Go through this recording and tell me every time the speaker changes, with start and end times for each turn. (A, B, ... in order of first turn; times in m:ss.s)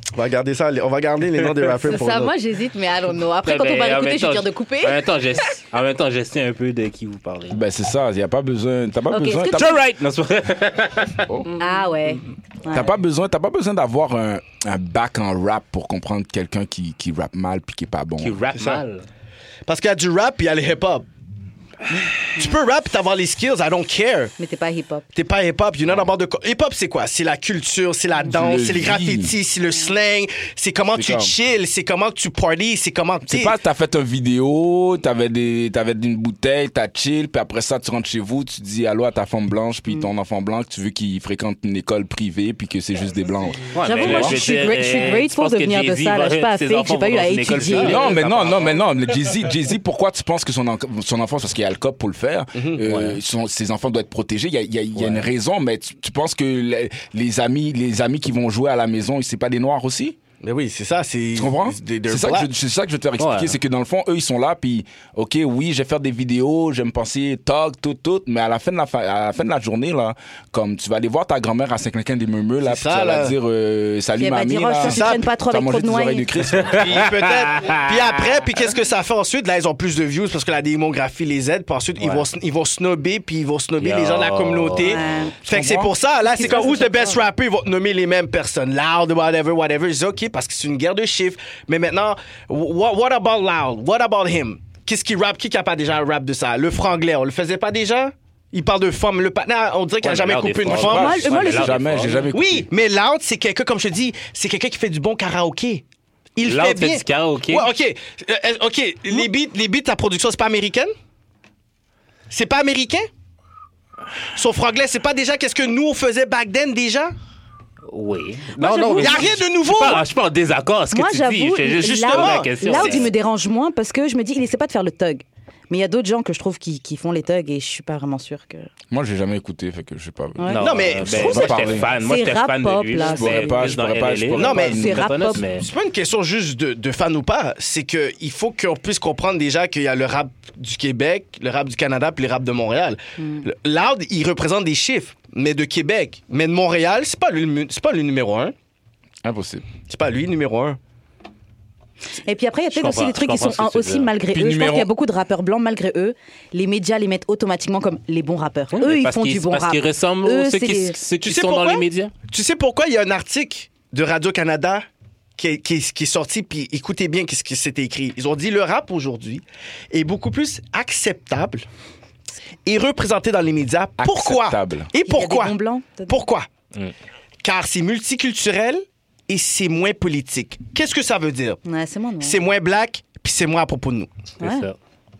0:00.1-0:02.3 A
0:01.8-0:05.0 B
0:03.4-0:07.6 C
0:07.5-0:09.8 D
0:09.1-0:09.8 B
0:09.6-0:12.2 C
0:11.6-0:12.9 B
0:12.7-0:18.4 D
0:18.2-0:19.0 C
0:18.5-0:18.8 A
0:19.6-0:21.1 A
0:21.9-0:22.5 B
0:22.2-0:24.3 A
0:24.4-0:25.0 B
0:25.1-0:33.5 A
0:28.2-0:29.3 D
0:30.9-0:31.3 D
0:33.2-0:44.4 D
0:43.7-0:48.8 C
0:43.8-0:48.0 B
0:47.8-1:00.2 D
0:52.5-0:52.8 A
0:52.8-0:53.2 C
0:54.9-0:55.3 C
1:00.4-1:02.5 A
1:01.4-1:17.1 D
1:03.2-1:03.6 C
1:12.6-1:13.3 A
1:14.2-1:16.3 B
1:14.8-1:15.2 A
1:16.6-1:18.1 C
1:16.7-1:41.2 A
1:22.0-1:22.3 C
1:23.8-1:25.0 C
1:24.8-1:25.4 B
1:25.4-1:25.9 D
1:26.2-1:27.2 B
1:40.0-1:42.3 C
1:40.6-1:42.7 D
1:40.9-1:41.7 B
1:42.3-1:45.8 A
1:46.4-1:50.9 A
1:46.4-1:47.7 C
1:52.3-1:53.1 A
1:54.3-1:57.1 A
1:57.9-2:03.1 C
1:58.6-1:59.3 B
1:59.0-2:00.0 A
2:00.9-2:08.7 B
2:01.8-2:03.1 A
2:08.9-2:11.9 D
2:10.4-2:10.6 B
2:10.5-2:15.7 C
2:10.6-2:11.8 A
2:12.0-2:13.6 B
2:13.0-2:15.3 D
2:14.3-2:28.5 A
2:14.4-2:15.4 B
2:23.2-2:23.4 B
2:29.2-2:29.6 D
2:29.9-2:30.8 A
2:32.2-2:41.0 B
2:32.7-2:34.1 C
2:34.3-2:34.9 D
2:38.7-2:42.1 C
2:41.2-2:44.8 A
2:45.4-2:51.6 A
2:52.6-2:55.6 A
2:54.0-2:54.9 D
2:55.0-2:56.2 B
2:56.1-2:56.5 A
2:57.4-3:01.6 A
3:01.6-3:02.4 B
3:02.2-3:04.1 A
3:04.4-3:04.7 B
3:04.4-3:04.7 C